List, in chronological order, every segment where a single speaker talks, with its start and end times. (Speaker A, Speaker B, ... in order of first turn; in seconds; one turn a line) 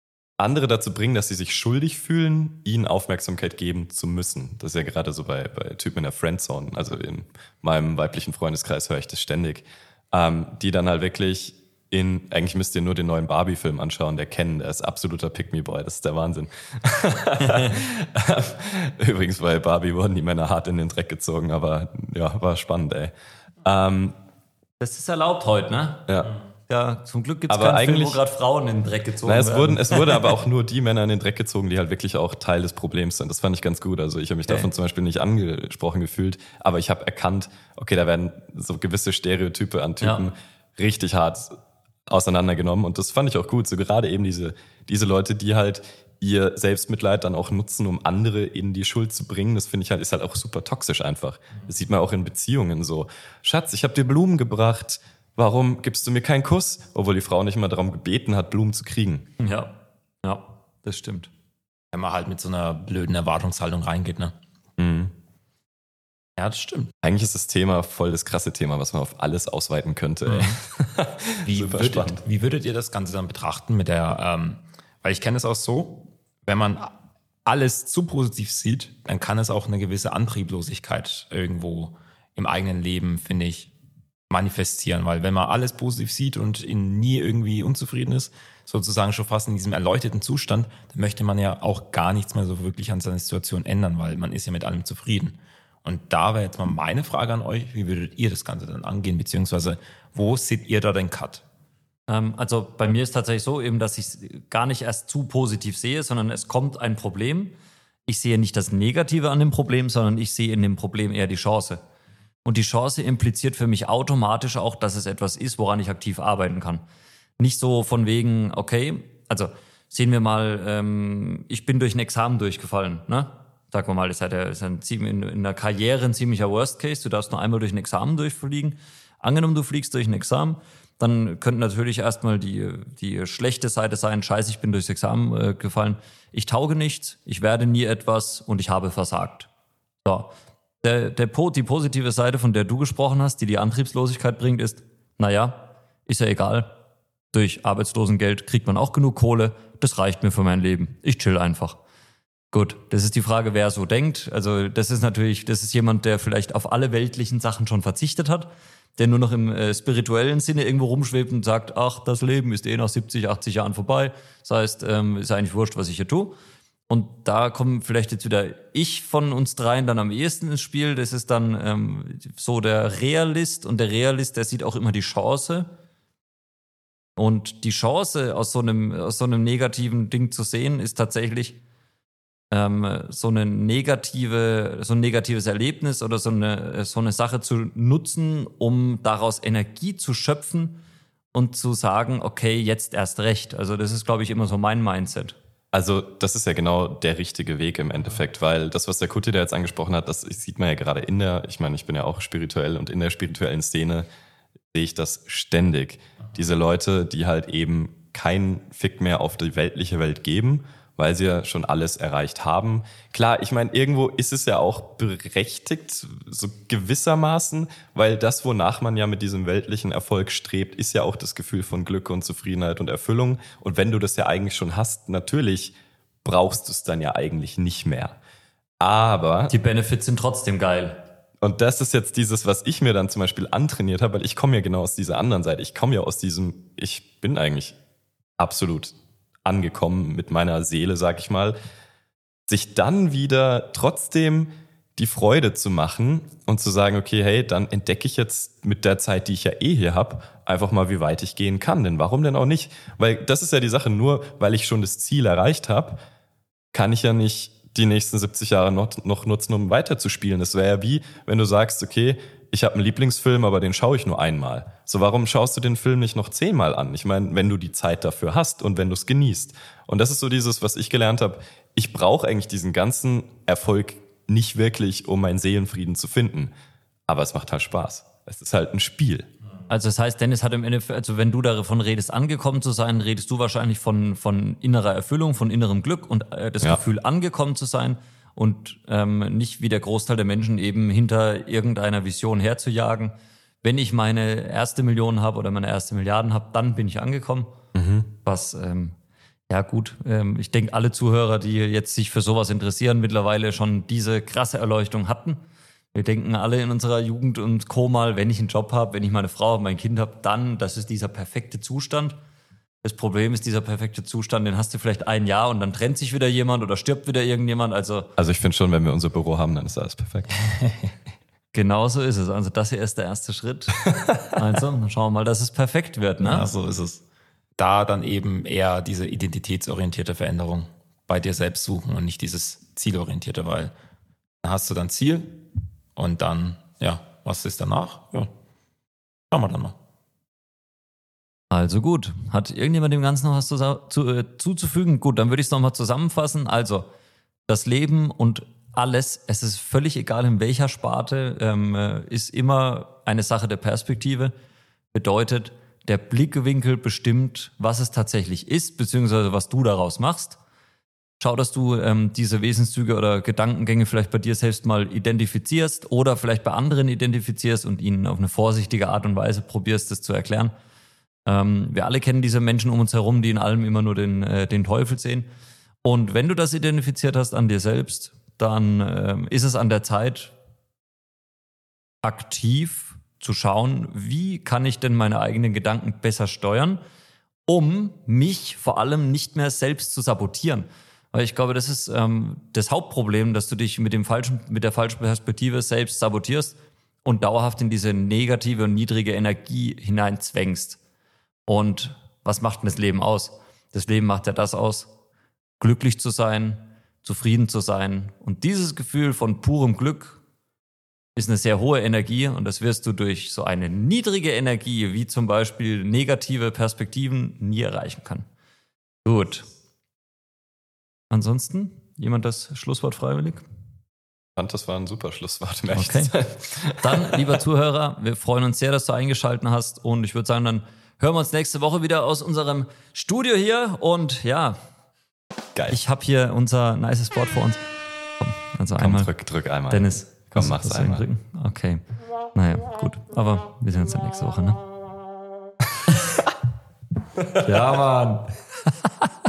Speaker A: 0.4-23.1
Speaker B: 17.4-17.7
Speaker A: 23.6-24.1
Speaker B: 24.8-26.0
Speaker B: 26.7-30.2
Speaker A: 27.5-28.2
Speaker A: 29.2-41.5
Speaker B: 40.0-40.3
Speaker A: 42.1-59.3
Speaker B: 59.4-61.3
Speaker C: 61.9-64.3
Speaker A: 64.8-65.1
Speaker C: 66.4-66.9
Speaker A: 67.0-72.2
Speaker C: 71.4-76.9
Speaker C: 77.5-83.7
Speaker C: 84.3-101.4
Speaker B: 102.1-107.5
Speaker B: 108.1-111.8
Speaker B: 112.5-116.8
Speaker B: 117.4-139.5
Speaker B: 140.1-146.7
Speaker B: 147.3-151.8
Speaker B: 152.5-166.4
Speaker B: 166.9-175.7
Speaker B: 177.2-181.6
Speaker B: 182.5-190.8
Speaker B: 191.3-195.4
Speaker A: 195.7-204.1
Speaker A: 204.7-228.2
Speaker A: 228.8-229.5
Speaker B: 229.5-231.0
Speaker A: 231.4-237.8
Speaker A: 238.4-241.6
Speaker A: 242.5-256.0
Speaker A: 256.7-276.5
Speaker A: 277.1-279.3
Speaker B: 279.7-297.5
Speaker A: 297.8-298.1
Speaker B: 298.2-298.9
Speaker B: 299.5-305.4
Speaker B: 305.9-312.2
Speaker B: 312.8-318.1
Speaker A: 318.2-320.4
Speaker C: 320.4-320.9
Speaker B: 321.5-326.5
Speaker C: 326.2-327.0
Speaker C: 327.6-333.7
Speaker C: 334.4-338.3
Speaker C: 339.3-339.8
Speaker B: 341.5-346.9
Speaker B: 347.5-354.3
Speaker B: 354.9-360.4
Speaker B: 361.2-370.5
Speaker B: 371.3-375.3
Speaker B: 375.8-380.3
Speaker B: 382.0-386.8
Speaker B: 387.5-400.8
Speaker B: 401.5-404.9
Speaker B: 405.6-410.2
Speaker B: 411.2-418.3
Speaker B: 419.1-419.5
Speaker B: 421.1-423.4
Speaker A: 424.4-427.2
Speaker B: 425.7-426.1
Speaker B: 426.8-434.6
Speaker B: 435.7-437.6
Speaker B: 438.2-439.1
Speaker A: 438.8-441.1
Speaker B: 439.7-441.8
Speaker B: 442.4-444.6
Speaker B: 447.4-449.1
Speaker C: 447.6-448.1